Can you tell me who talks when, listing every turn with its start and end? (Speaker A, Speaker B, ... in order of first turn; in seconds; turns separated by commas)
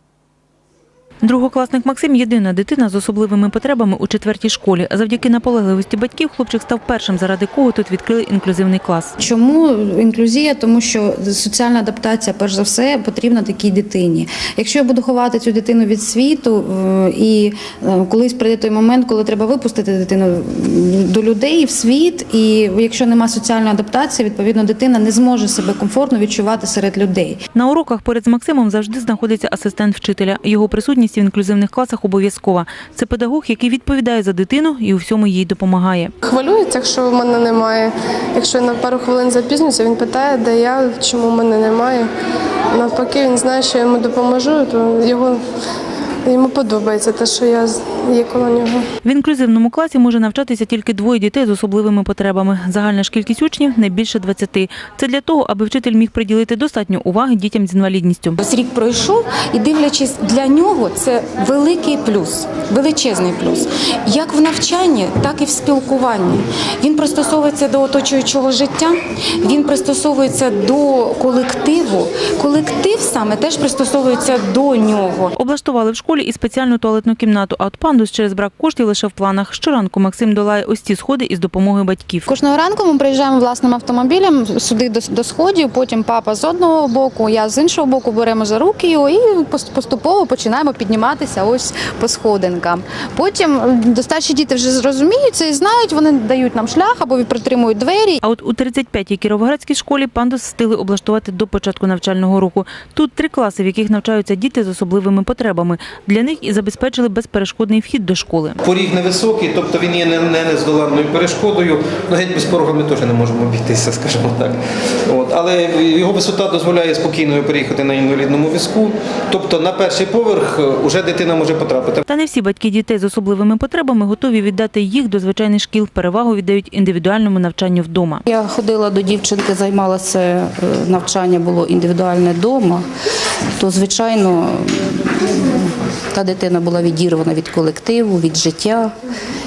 Speaker A: 1.2-9.1, Speaker B: 9.2-27.4, Speaker A: 27.5-36.1, Speaker C: 36.2-42.1, Speaker C: 42.7-45.4, Speaker C: 46.2-48.8, Speaker A: 49.0-58.4, Speaker D: 58.4-75.3, Speaker A: 75.3-82.3, Speaker B: 82.3-98.2, Speaker A: 98.2-108.6, Speaker E: 108.6-122.0, Speaker A: 122.1-128.2, Speaker F: 128.3-132.8, Speaker F: 133.6-138.9